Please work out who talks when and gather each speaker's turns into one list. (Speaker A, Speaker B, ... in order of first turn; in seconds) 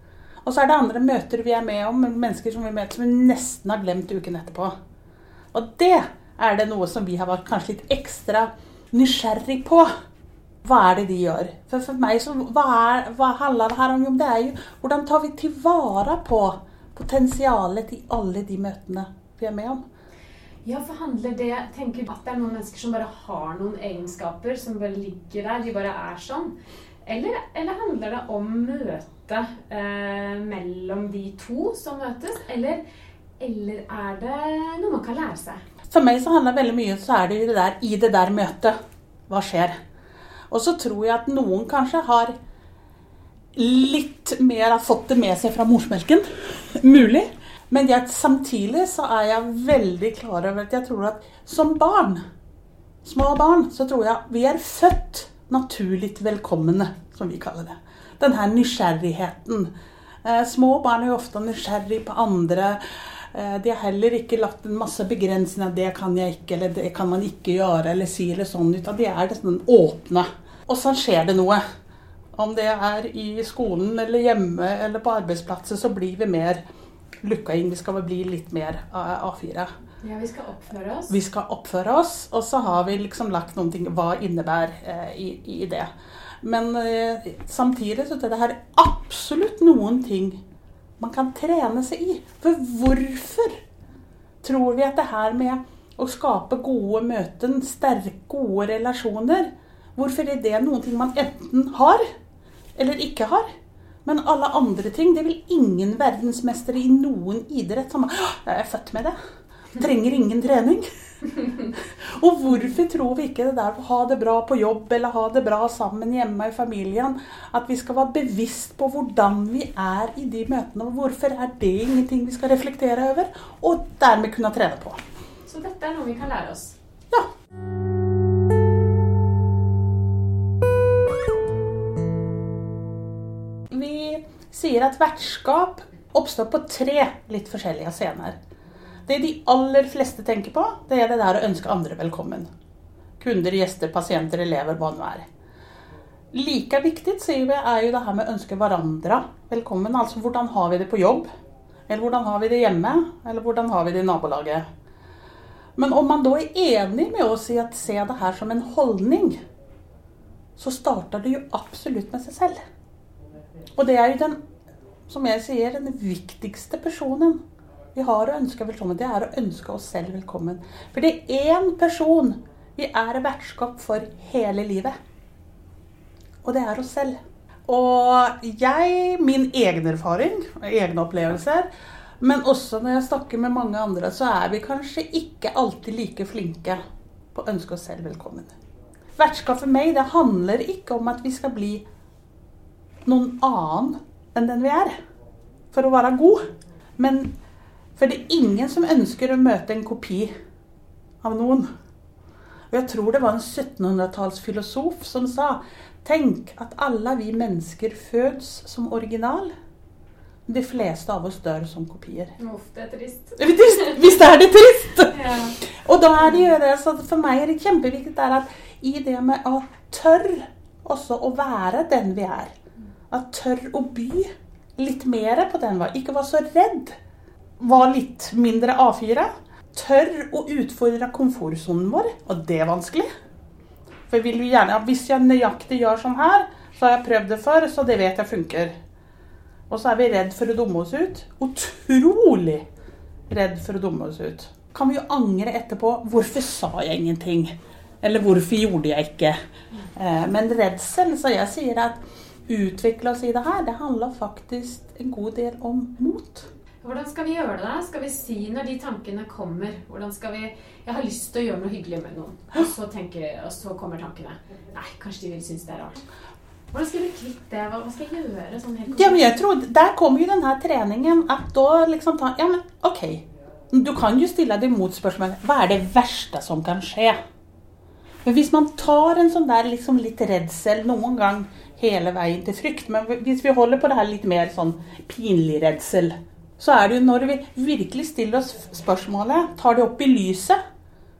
Speaker A: 0.4-4.7, 5.5-9.9, 10.6-19.8, 35.9-38.8, 39.3-39.8, 40.5-42.3, 43.6-52.2, 53.0-59.7, 60.2-71.6, 72.3-76.6, 77.2-79.7, 81.1-85.9, 86.4-90.4, 91.0-93.6, 94.4-102.0, 102.8-103.5, 104.0-109.2, 109.8-125.0, 133.7-138.4, 139.1-142.5, 143.2-145.2, 146.3-151.3, 151.9-154.6, 155.8-159.4, 160.6-162.6, 163.8-164.4, 165.1-167.4, 167.9-174.9, 176.4-177.2, 177.7-181.7, 182.2-186.8, 187.3-188.5, 189.2-191.8, 193.1-194.9, 195.7-196.4, 197.0-197.3, 198.0-200.3, 201.2-201.7, 202.7-209.5, 210.5-212.3, 213.4-222.5, 223.1-227.0, 227.6-233.1, 234.1-238.7, 239.7-242.7, 243.3-249.4, 249.9-256.5, 268.9-277.2, 278.2-290.6
Speaker B: 20.6-32.8, 33.4-35.6, 80.0-81.1, 125.5-126.8, 212.4-214.0, 215.1-215.6, 256.8-266.1, 266.7-269.3